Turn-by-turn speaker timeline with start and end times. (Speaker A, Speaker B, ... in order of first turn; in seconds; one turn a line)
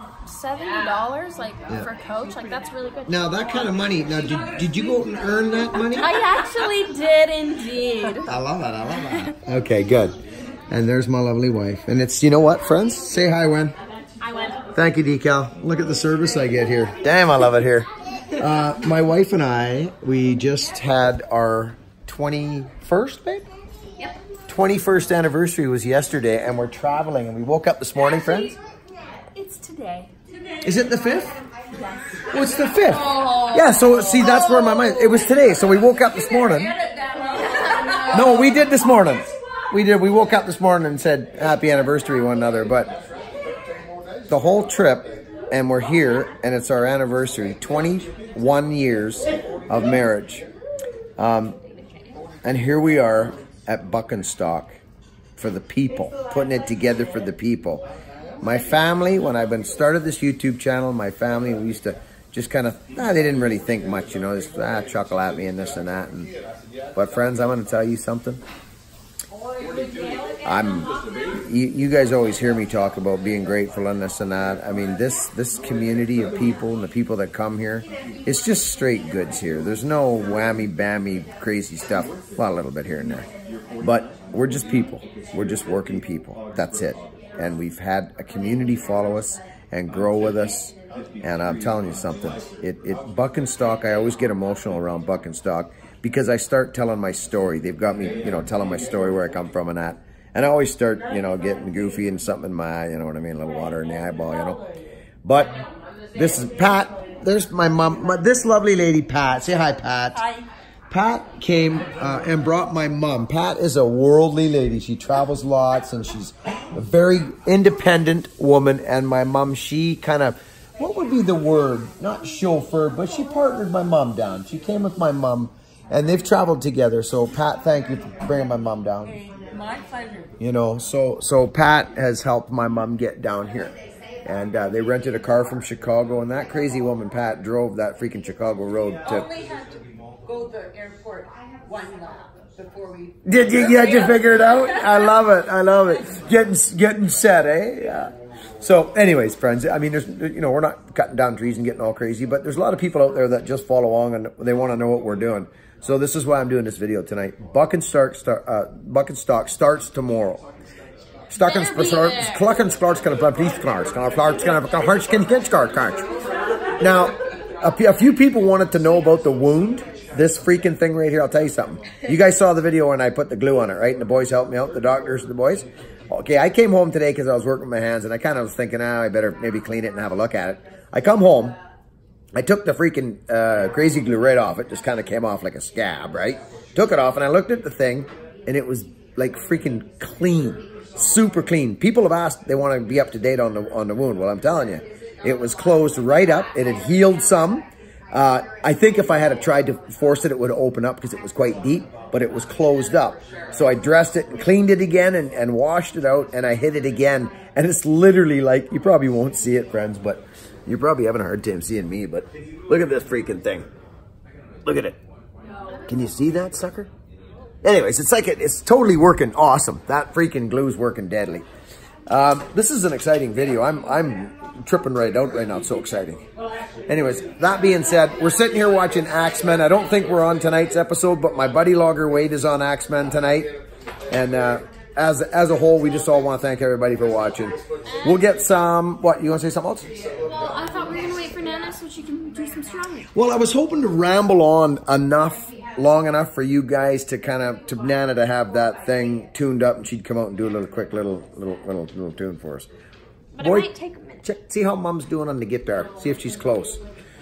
Speaker A: 0.2-3.7
Speaker B: 3.0-6.2
Speaker A: 5.9-8.3
Speaker B: 8.2-10.2
Speaker B: 10.7-13.8
Speaker A: 14.2-14.6
Speaker B: 14.7-23.5
Speaker B: 24.5-28.6
Speaker A: 29.3-30.1
Speaker B: 30.6-31.4
Speaker A: 31.8-32.1
Speaker B: 32.3-36.8
Speaker C: 32.9-35.0
Speaker A: 37.3-38.3
Speaker C: 37.4-38.2
Speaker B: 38.1-42.9
Speaker B: 44.3-50.5
Speaker B: 51.2-51.6
Speaker A: 51.7-52.1
Speaker B: 52.4-54.8
Speaker B: 55.4-57.8
Speaker B: 58.4-66.3
Speaker B: 66.9-68.4
Speaker B: 70.4-83.3
Speaker B: 83.8-104.6
Speaker B: 105.2-105.6
Speaker B: 106.1-110.2
Speaker B: 110.9-129.2
Speaker B: 130.4-139.3
Speaker C: 139.5-139.8
Speaker C: 140.5-143.1
Speaker B: 143.2-160.4
Speaker C: 143.8-144.1
Speaker B: 161.3-166.0
Speaker A: 161.4-162.5
Speaker B: 166.8-181.6
Speaker B: 182.3-213.7
Speaker B: 214.6-215.0
Speaker B: 215.8-216.9
Speaker B: 217.6-221.4
Speaker B: 222.1-226.2
Speaker B: 226.9-233.5
Speaker B: 234.1-239.9
Speaker A: 237.8-238.2
Speaker A: 240.2-243.1
Speaker B: 243.1-252.7
Speaker A: 253.3-254.2
Speaker B: 253.4-253.7
Speaker B: 254.2-256.8